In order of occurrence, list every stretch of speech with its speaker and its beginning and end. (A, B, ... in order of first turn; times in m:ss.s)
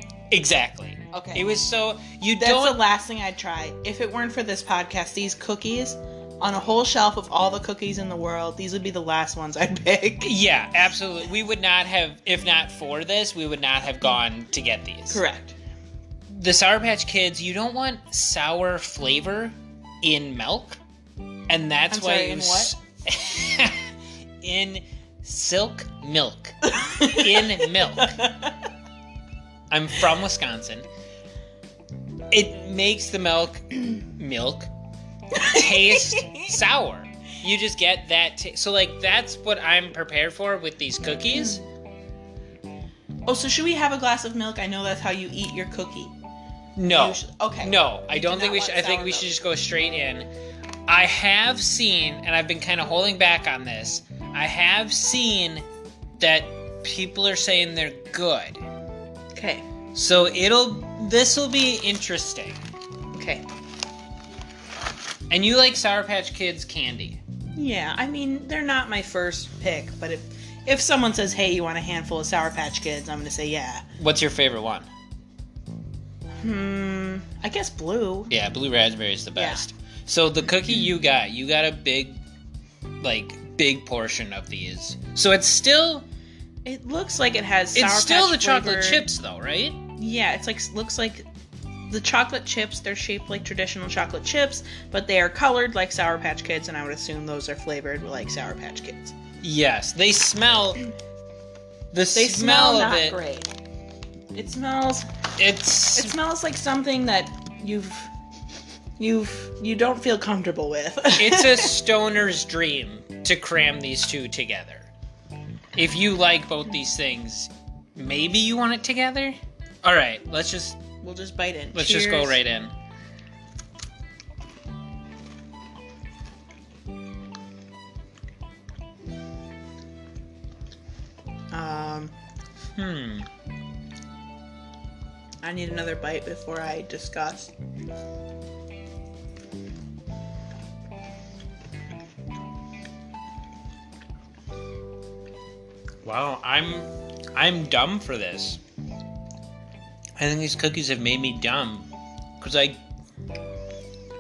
0:00.3-0:02.8 A
0:01.1-0:01.5 B
0:02.4-0:10.3 B
0:10.2-0:15.2 A
0:15.1-0:15.6 B
0:16.3-0:20.8 A
0:21.5-0:23.9 A
0:21.9-0:22.7 B
0:24.4-0:28.2 A
0:26.6-0:28.6 B
0:29.7-0:30.9 A
0:32.3-0:34.7 A
0:35.4-0:36.5 B
0:35.4-0:41.6 A
0:43.3-0:46.1 B
0:46.8-0:50.3 A
0:46.9-0:49.4 B
0:50.9-0:55.6 A
0:56.2-0:58.6 A
0:59.4-0:59.6 B
0:59.9-1:02.6 A
1:03.1-1:03.4 B
1:05.3-1:07.2 A
1:07.6-1:13.9 B
1:14.0-1:14.9 A
1:16.4-1:18.3 B
1:18.3-1:22.2 A
1:19.4-1:19.6 B
1:23.0-1:26.1 A
1:26.6-1:29.0 B
1:27.8-1:29.8 A
1:30.0-1:31.2 B
1:31.9-1:39.2 B
1:39.4-1:40.8 A
1:41.9-1:43.2 A
1:42.1-1:43.5 B
1:44.3-1:45.1 B
1:45.4-1:46.2 A
1:45.9-1:48.1 B
1:49.0-1:51.8 B
1:51.2-1:54.9 A
1:55.8-2:00.8 A
2:01.0-2:02.4 B
2:01.7-2:02.7 A
2:11.5-2:12.1 B
2:12.8-2:13.3 A
2:15.4-2:17.5 B
2:26.0-2:28.6 A
2:30.2-2:31.9 A
2:32.4-2:32.8 A